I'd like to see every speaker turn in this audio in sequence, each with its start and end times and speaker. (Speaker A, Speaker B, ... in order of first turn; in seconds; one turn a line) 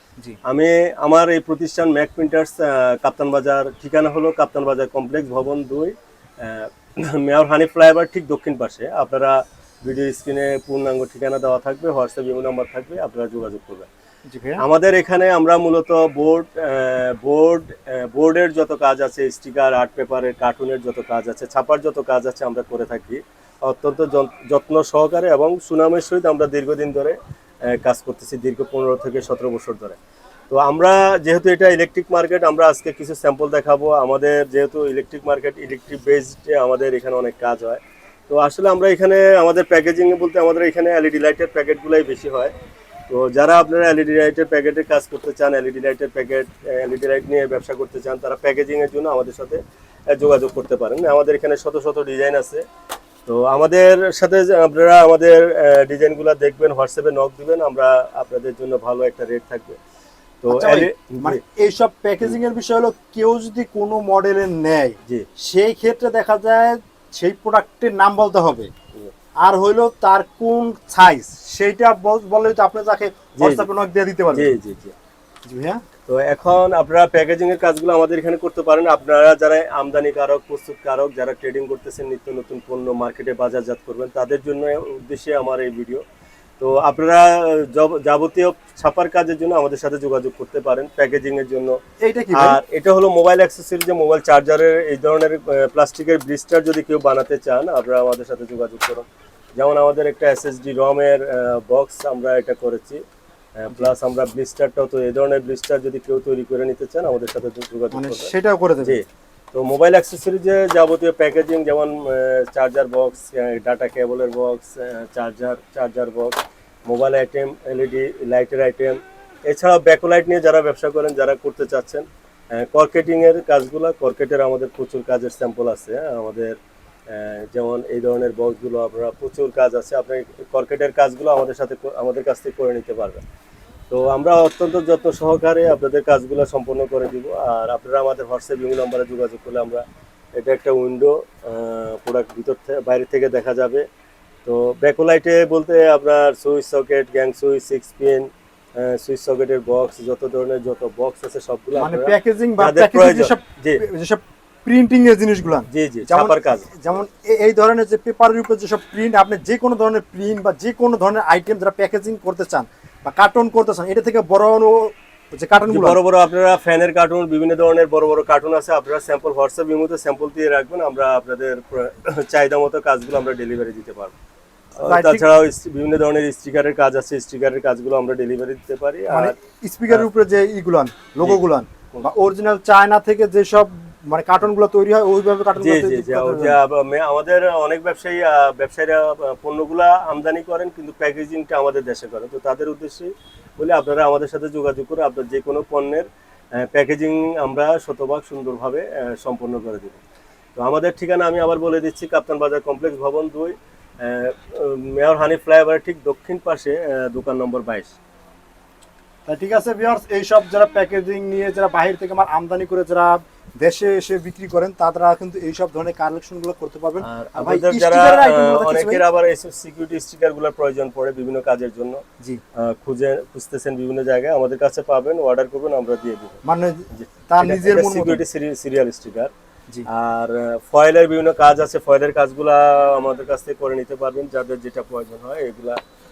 Speaker A: 0.4-13.9
Speaker B: 14.3-14.6
Speaker A: 14.6-30.0
Speaker A: 30.5-42.5
Speaker A: 43.1-52.6
Speaker A: 53.3-59.8
Speaker A: 60.4-61.4
Speaker B: 60.5-68.7
Speaker B: 69.4-74.5
Speaker A: 73.4-73.7
Speaker A: 74.3-75.0
Speaker B: 75.5-75.8
Speaker A: 76.1-86.0
Speaker A: 86.6-91.8
Speaker B: 92.0-92.6
Speaker A: 92.3-99.0
Speaker A: 99.6-103.0
Speaker A: 103.6-108.3
Speaker B: 107.9-109.0
Speaker A: 108.8-126.6
Speaker A: 127.1-133.2
Speaker A: 133.9-139.8
Speaker A: 140.4-143.8
Speaker A: 144.4-153.8
Speaker B: 151.8-166.0
Speaker A: 155.7-156.7
Speaker A: 165.7-174.1
Speaker A: 174.8-179.3
Speaker B: 174.8-175.3
Speaker B: 179.1-186.6
Speaker A: 185.6-200.0
Speaker A: 200.6-207.9
Speaker B: 209.3-219.0
Speaker A: 217.0-222.0
Speaker A: 222.6-229.3
Speaker B: 226.4-228.2
Speaker A: 229.9-235.8